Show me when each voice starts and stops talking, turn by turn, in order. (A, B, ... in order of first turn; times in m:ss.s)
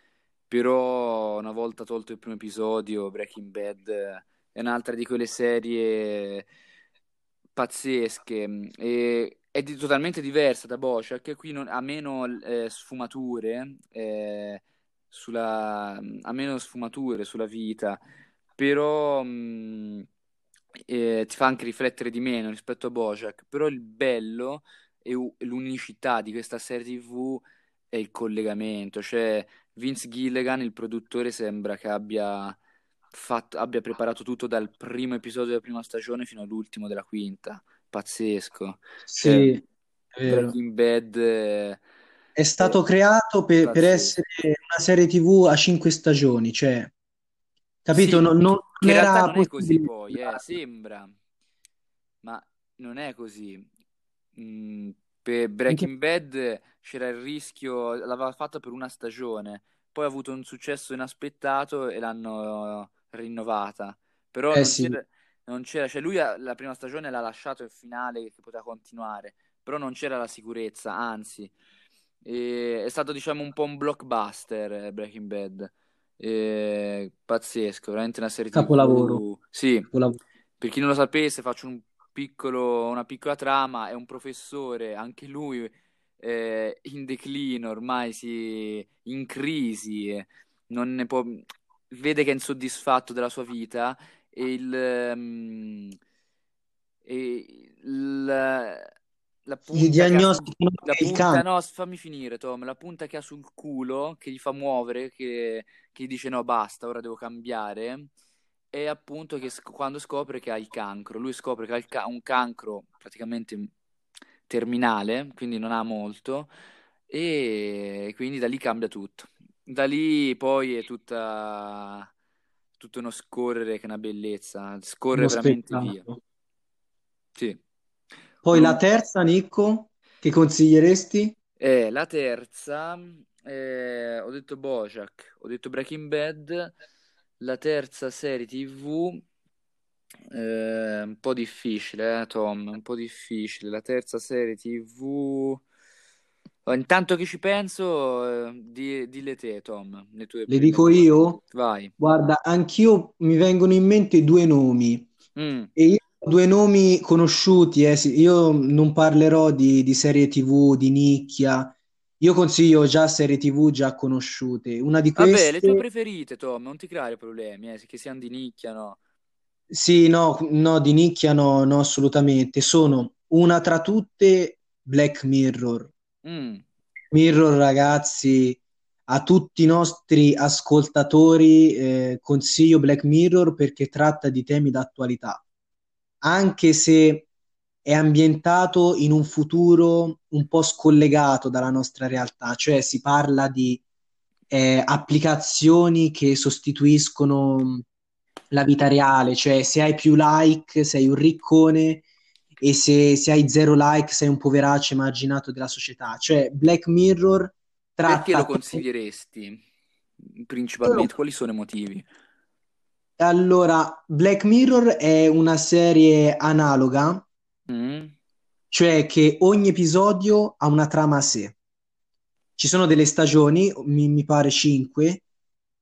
0:00.5-0:06.5 A
0:07.6-0:18.0 A
0:18.6-0:20.1 A
0:20.9-0:32.6 A
0:33.1-0:39.6 A
0:39.1-0:39.6 B
0:40.2-0:40.5 B
0:40.2-0:41.8 A
0:42.4-0:46.9 B
0:43.6-0:44.2 A
0:47.8-0:50.4 B
0:47.9-0:51.1 A
0:52.2-0:53.7 A
0:54.4-1:11.5 A
1:04.5-1:05.0 B
1:12.2-1:19.9 A
1:18.5-1:19.2 B
1:19.9-1:20.2 B
1:20.6-1:36.0 A
1:37.1-1:38.9 A
1:39.5-1:48.1 A
1:39.7-1:41.4 B
1:48.7-1:53.7 A
1:54.5-1:56.5 A
1:57.1-2:02.1 A
2:02.8-2:06.0 A
2:05.2-2:06.2 B
2:08.4-2:11.4 B
2:08.5-2:08.8 A
2:11.6-2:16.7 A
2:17.4-2:19.2 A
2:20.3-2:25.6 A
2:26.7-2:31.9 A
2:30.5-2:31.4 B
2:32.0-2:35.1 B
2:35.4-2:35.7 A
2:35.8-2:45.8 B
2:45.2-2:49.0 A
2:49.7-2:55.9 B
2:56.2-2:56.6 A
2:57.1-3:05.4 B
3:06.2-3:07.3 B
3:07.8-3:13.8 B
3:14.5-3:17.8 B
3:18.5-3:22.0 B
3:22.6-3:28.8 B
3:28.1-3:29.6 A
3:30.3-3:32.0 A
3:33.2-3:37.2 B
3:37.7-3:38.1 A
3:38.7-3:41.6 B
3:42.6-3:45.2 B